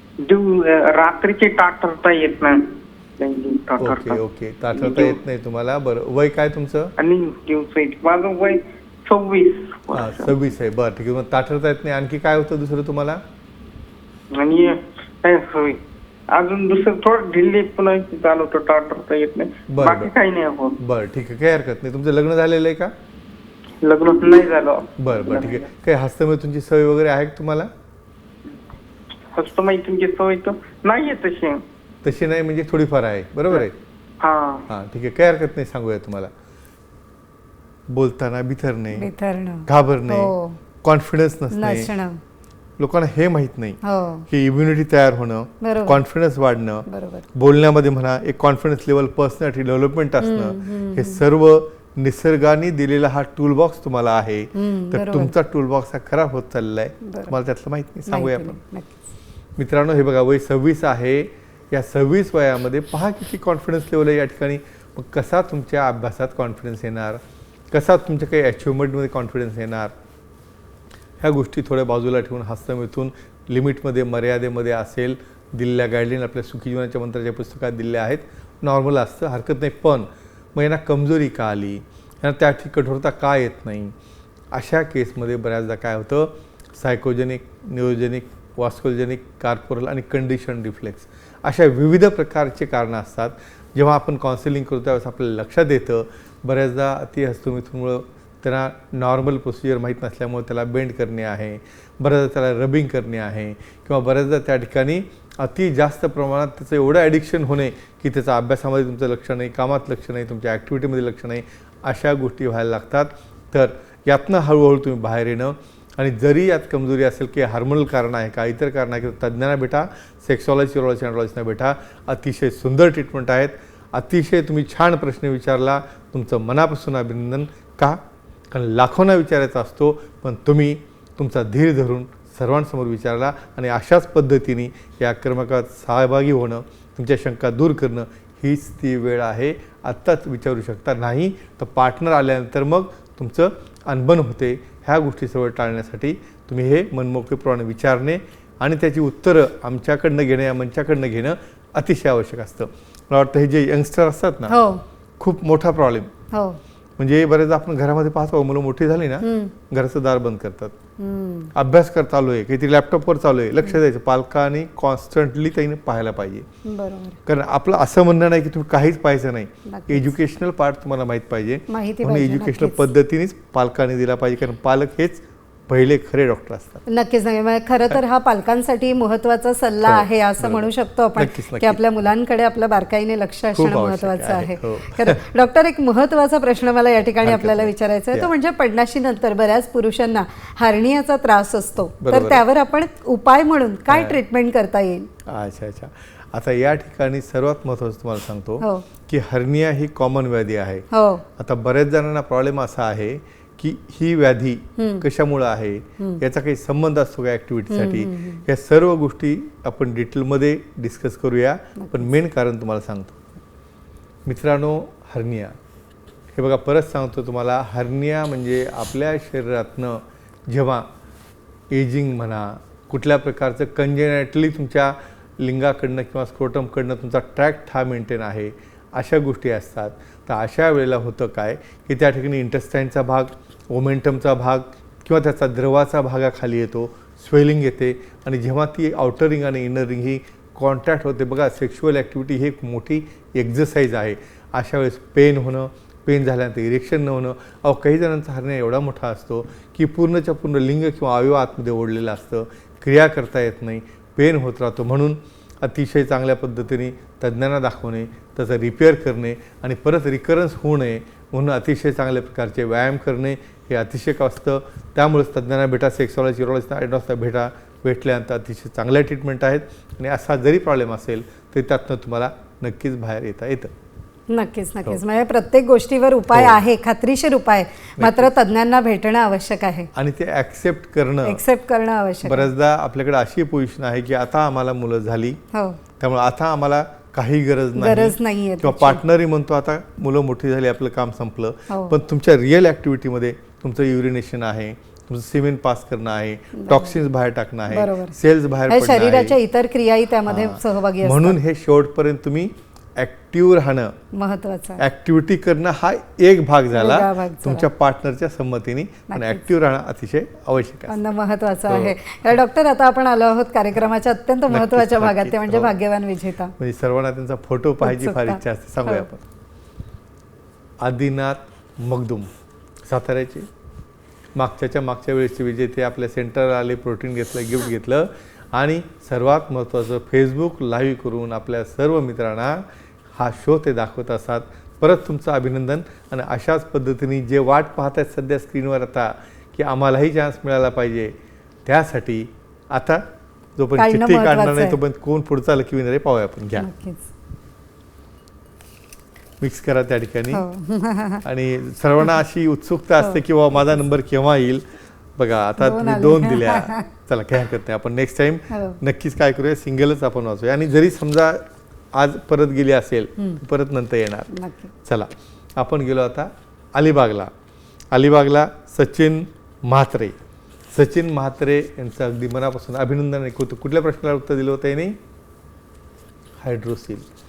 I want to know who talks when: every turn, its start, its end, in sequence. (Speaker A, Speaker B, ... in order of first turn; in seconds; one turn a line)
Speaker A: 0.2-4.2
Speaker B: 3.8-6.9
Speaker A: 4.7-5.2
Speaker A: 7.0-10.3
Speaker B: 9.9-13.2
Speaker A: 14.3-20.8
Speaker B: 19.7-20.1
Speaker B: 20.8-22.9
Speaker A: 23.8-25.7
Speaker B: 25.0-27.7
Speaker A: 29.3-31.6
Speaker B: 32.0-33.7
Speaker A: 34.2-34.6
Speaker B: 34.7-36.3
Speaker B: 37.9-39.1
Speaker C: 38.9-40.6
Speaker B: 39.6-40.3
Speaker B: 40.8-41.9
Speaker C: 41.5-42.2
Speaker B: 42.8-58.6
Speaker C: 43.8-44.2
Speaker C: 45.6-46.0
Speaker C: 46.9-47.2
Speaker C: 50.2-51.2
Speaker C: 54.5-55.3
Speaker C: 57.0-57.3
Speaker C: 58.0-59.1
Speaker B: 59.6-69.9
Speaker B: 71.2-83.9
Speaker B: 84.5-154.6
Speaker C: 154.5-154.8
Speaker B: 155.2-156.1
Speaker C: 156.3-156.6
Speaker B: 157.0-160.7
Speaker C: 159.2-159.5
Speaker C: 161.0-161.5
Speaker B: 161.5-166.5
Speaker C: 166.7-167.2
Speaker B: 167.2-176.8
Speaker C: 169.7-170.2
Speaker C: 171.7-172.8
Speaker C: 176.9-195.1
Speaker B: 179.8-181.8
Speaker B: 183.5-185.2
Speaker B: 187.2-188.3
Speaker B: 192.0-192.4
Speaker B: 193.9-194.2
Speaker B: 195.2-213.2
Speaker C: 200.9-201.2
Speaker C: 204.8-205.0
Speaker C: 207.7-208.4
Speaker C: 211.8-212.1
Speaker B: 214.2-215.6
Speaker B: 216.3-220.9
Speaker B: 221.7-273.7
Speaker C: 274.3-279.9
Speaker B: 276.3-276.6
Speaker B: 278.0-278.3
Speaker B: 279.9-281.4
Speaker C: 281.2-282.5
Speaker B: 282.2-285.4
Speaker C: 285.5-285.8
Speaker B: 286.0-299.4
Speaker C: 287.8-289.0
Speaker C: 291.7-291.9
Speaker C: 296.5-297.0
Speaker C: 297.7-298.1
Speaker C: 298.7-301.4
Speaker B: 300.3-303.9
Speaker C: 304.1-304.8
Speaker B: 304.8-310.9
Speaker C: 306.7-307.7
Speaker C: 309.1-309.5
Speaker C: 310.9-316.5
Speaker B: 311.7-311.9
Speaker B: 314.5-315.7
Speaker B: 316.6-319.2
Speaker C: 317.8-319.1
Speaker B: 320.8-322.3
Speaker B: 322.9-323.5
Speaker B: 324.3-346.7
Speaker C: 343.8-344.8
Speaker C: 346.6-347.1
Speaker B: 349.4-350.4
Speaker C: 350.3-351.2
Speaker B: 351.2-354.6
Speaker B: 355.2-364.3
Speaker C: 355.6-356.8
Speaker C: 358.5-358.8
Speaker C: 364.3-364.7
Speaker B: 364.8-367.3
Speaker B: 367.9-370.1
Speaker B: 370.7-375.0
Speaker B: 376.4-377.1